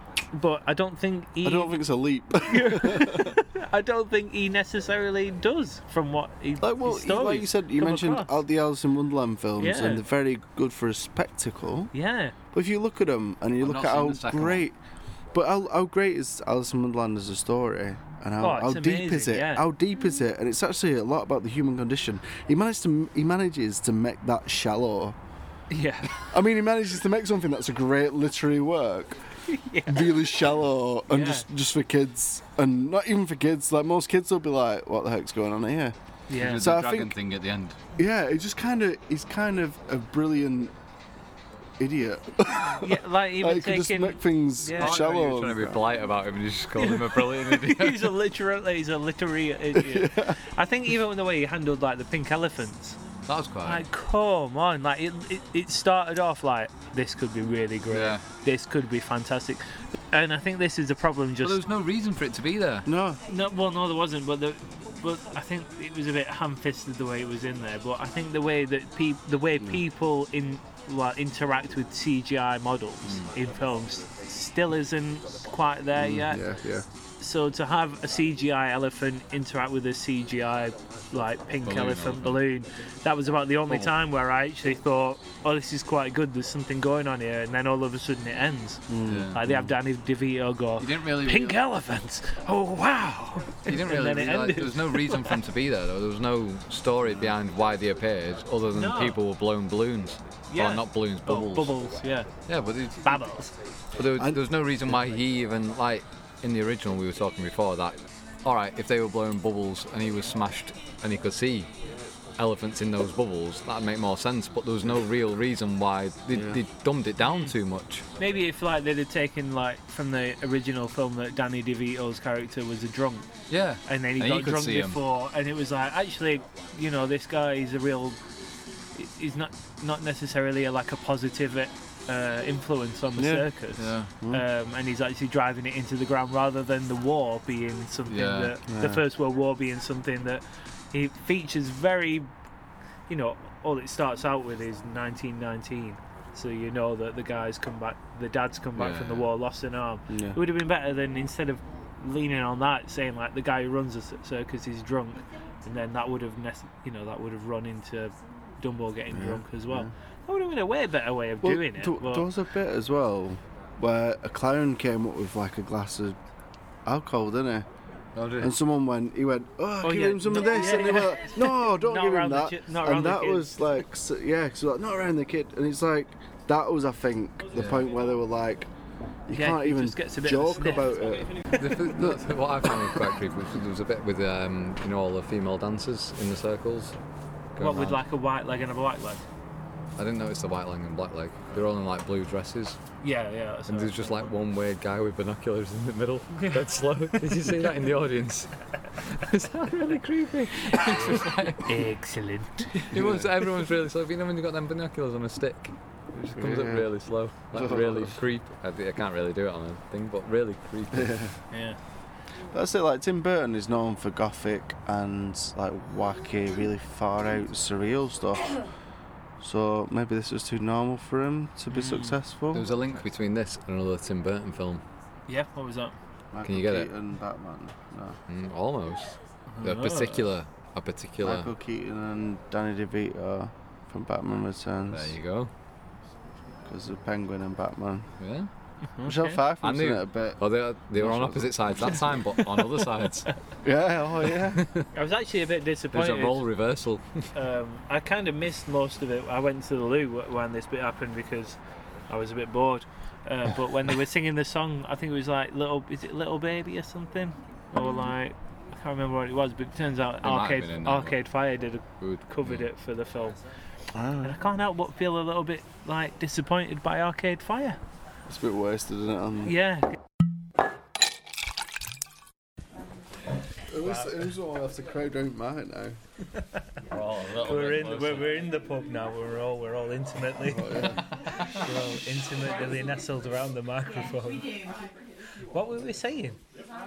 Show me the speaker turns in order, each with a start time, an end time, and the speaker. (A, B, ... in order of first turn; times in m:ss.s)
0:00.3-0:01.8 A
0:01.4-0:03.4 B
0:02.4-0:08.4 A
0:06.6-0:11.9 B
0:09.6-0:10.0 A
0:11.9-0:12.3 A
0:12.5-0:14.8 B
0:13.6-0:14.6 C
0:15.3-0:25.2 B
0:18.4-0:19.6 A
0:25.7-0:26.2 A
0:26.2-0:29.2 B
0:29.5-0:30.2 A
0:29.8-0:35.9 B
0:31.1-0:31.5 A
0:36.3-0:36.6 A
0:36.3-0:37.8 C
0:36.6-0:37.1 B
0:38.0-0:40.7 B
0:41.8-0:45.8 B
0:42.8-0:45.0 A
0:44.8-0:48.2 C
0:46.8-0:53.0 A
0:49.7-0:50.4 B
0:53.3-0:53.8 C
0:53.6-1:01.6 A
0:57.9-0:58.2 C
1:01.4-1:02.9 C
1:02.8-1:03.2 B
1:03.3-1:16.4 A
1:13.0-1:13.3 C
1:15.9-1:16.8 B
1:17.2-1:35.4 A
1:21.6-1:22.4 C
1:28.9-1:29.6 B
1:29.1-1:29.5 C
1:30.8-1:31.6 C
1:33.7-1:41.7 C
1:37.0-1:37.3 B
1:38.7-1:39.2 A
1:40.5-1:42.3 A
1:42.5-1:43.2 C
1:43.0-1:43.5 A
1:44.0-1:51.7 C
1:44.2-1:45.0 B
1:52.4-1:58.0 C
1:56.3-1:56.6 B
1:57.2-1:57.5 A
1:58.2-2:03.3 A
2:03.5-2:05.0 C
2:03.8-2:08.2 A
2:08.9-2:22.3 A
2:13.2-2:13.5 B
2:13.8-2:14.1 C
2:18.1-2:18.6 C
2:18.7-2:19.0 B
2:23.1-2:42.3 A
2:28.8-2:29.3 C
2:30.1-2:30.4 B
2:39.1-2:39.9 B
2:41.4-2:46.2 B
2:46.8-2:47.7 B
2:48.2-2:48.5 C
2:48.4-2:58.7 B
2:49.8-2:53.6 A
2:57.5-2:57.9 C
2:59.3-3:02.2 B
2:59.3-3:01.2 A
3:01.5-3:06.9 C
3:07.6-3:08.0 C
3:07.6-3:09.2 A
3:10.0-3:12.8 C
3:13.0-3:14.2 A
3:13.7-3:21.8 C
3:16.4-3:16.6 A
3:17.2-3:17.5 A
3:20.7-3:22.9 A
3:22.9-3:31.2 C
3:22.9-3:23.3 B
3:26.3-3:26.9 B
3:27.5-3:28.2 B
3:30.9-3:31.3 B
3:31.5-3:31.8 A
3:32.5-3:38.6 B
3:39.4-3:42.7 B
3:41.7-3:42.2 A
3:42.5-3:44.8 C
3:45.3-3:45.9 A
3:46.3-3:48.2 B
3:46.4-3:46.9 C
3:48.3-3:51.5 C
3:49.5-3:50.3 A
3:51.2-3:55.2 B
3:54.9-3:55.5 C
3:56.6-3:58.1 B
3:58.2-3:58.5 C
3:58.9-3:59.4 A
3:59.0-4:02.2 B
3:59.6-4:03.3 C
4:03.6-4:04.6 B
4:04.5-4:04.8 C
4:04.9-4:06.4 A
4:05.9-4:07.2 C
4:07.3-4:23.4 A
4:20.2-4:21.2 C
4:22.0-4:22.7 C
4:23.9-4:24.4 B
4:24.2-4:27.8 A
4:28.3-4:29.6 B
4:29.4-4:30.0 A
4:33.7-4:36.0 B
4:33.8-4:34.1 A
4:36.9-4:38.4 C
4:37.4-4:44.5 A
4:40.4-4:41.0 B
4:45.5-4:46.4 A